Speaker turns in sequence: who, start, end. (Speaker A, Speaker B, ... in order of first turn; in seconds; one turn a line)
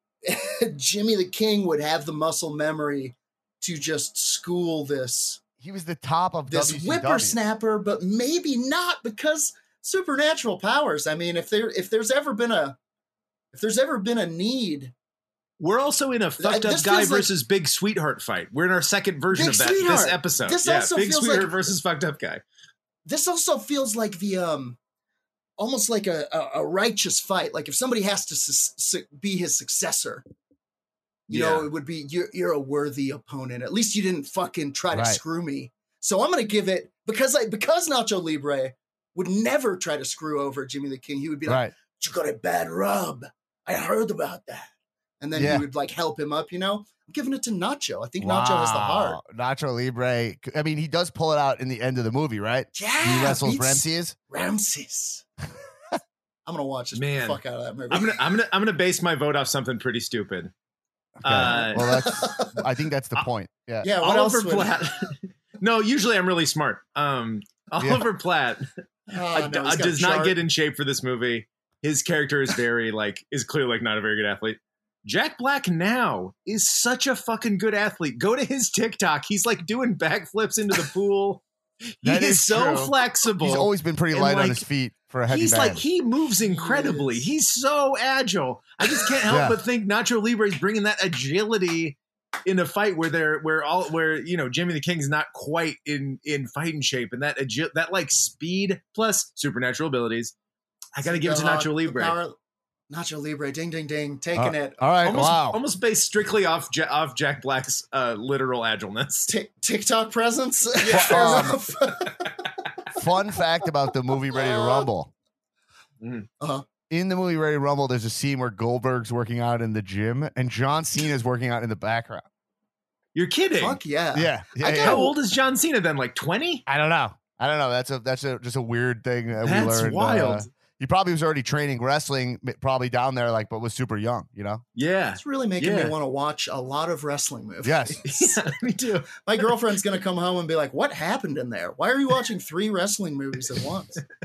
Speaker A: 0.2-5.4
Speaker B: 5.6-7.4
Speaker A: 6.5-12.8
Speaker A: 13.5-14.9
Speaker C: 15.6-22.4
Speaker A: 16.4-17.3
Speaker A: 19.3-21.7
Speaker A: 23.1-24.8
Speaker A: 25.6-30.2
Speaker A: 31.3-49.2
Speaker C: 31.3-31.7
Speaker B: 34.9-35.2
Speaker B: 41.5-41.7
Speaker B: 45.3-45.6
Speaker B: 48.2-54.1
Speaker A: 52.7-55.2
Speaker A: 56.5-58.2
Speaker C: 56.9-60.5
Speaker B: 61.2-63.9
Speaker C: 61.2-61.9
Speaker A: 61.4-62.6
Speaker A: 63.8-64.8
Speaker C: 64.0-81.4
Speaker B: 67.8-68.1
Speaker A: 69.1-70.4
Speaker C: 82.0-84.6
Speaker B: 82.0-85.8
Speaker C: 85.3-100.3
Speaker A: 86.4-87.2
Speaker B: 89.3-89.6
Speaker C: 100.9-102.1
Speaker A: 101.0-102.3
Speaker A: 102.9-104.8
Speaker B: 104.3-105.6
Speaker C: 105.0-109.3
Speaker A: 109.3-112.4
Speaker C: 110.8-111.5
Speaker B: 110.9-111.6
Speaker B: 112.9-115.1
Speaker A: 114.3-114.9
Speaker C: 116.0-116.3
Speaker A: 116.4-116.6
Speaker B: 116.9-122.2
Speaker C: 123.1-123.8
Speaker A: 123.6-125.1
Speaker B: 124.1-125.1
Speaker C: 124.7-126.6
Speaker B: 126.7-134.6
Speaker C: 129.4-130.5
Speaker C: 134.8-135.9
Speaker A: 135.2-138.4
Speaker B: 137.6-138.0
Speaker C: 138.0-139.2
Speaker A: 139.1-144.0